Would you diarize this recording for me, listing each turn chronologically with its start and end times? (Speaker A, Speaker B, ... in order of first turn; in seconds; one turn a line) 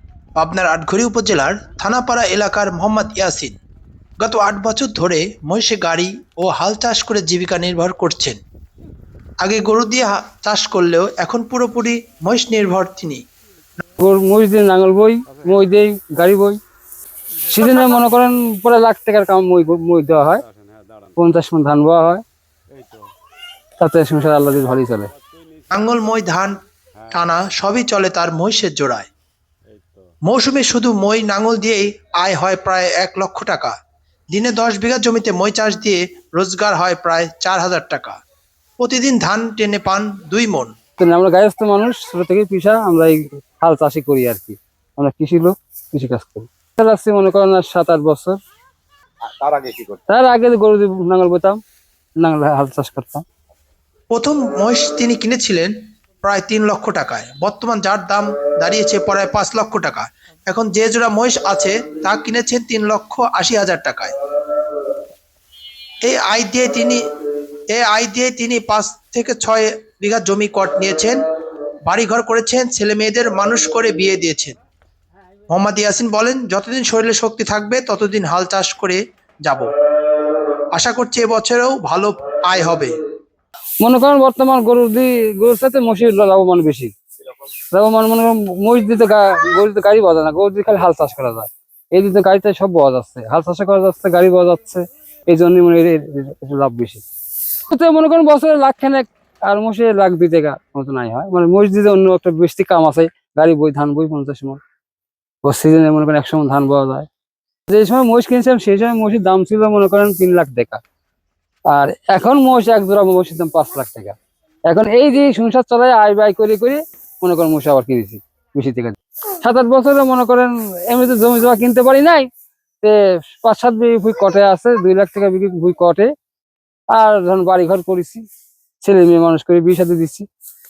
Speaker A: 0.4-3.6
Speaker A: 4.2-8.4
Speaker A: 9.4-13.2
Speaker B: 14.0-16.6
Speaker B: 17.5-20.4
Speaker C: 20.4-21.1
Speaker B: 21.2-22.2
Speaker C: 22.7-23.1
Speaker B: 23.8-25.1
Speaker C: 25.3-25.7
Speaker A: 25.7-26.6
Speaker A: 27.1-29.1
Speaker C: 29.8-30.0
Speaker A: 30.2-33.7
Speaker A: 34.3-38.2
Speaker A: 38.8-40.7
Speaker B: 41.0-48.4
Speaker C: 49.3-50.0
Speaker B: 50.1-51.6
Speaker B: 52.2-53.2
Speaker A: 54.1-55.7
Speaker A: 56.2-64.1
Speaker A: 66.0-67.0
Speaker A: 67.7-71.2
Speaker A: 71.8-74.6
Speaker A: 75.5-79.7
Speaker A: 80.7-83.0
Speaker B: 83.8-86.9
Speaker B: 87.7-97.0
Speaker B: 97.7-104.6
Speaker B: 105.4-107.1
Speaker B: 107.7-110.8
Speaker B: 111.7-114.2
Speaker B: 114.7-122.3
Speaker B: 122.8-126.1
Speaker B: 126.9-128.2
Speaker B: 128.8-130.3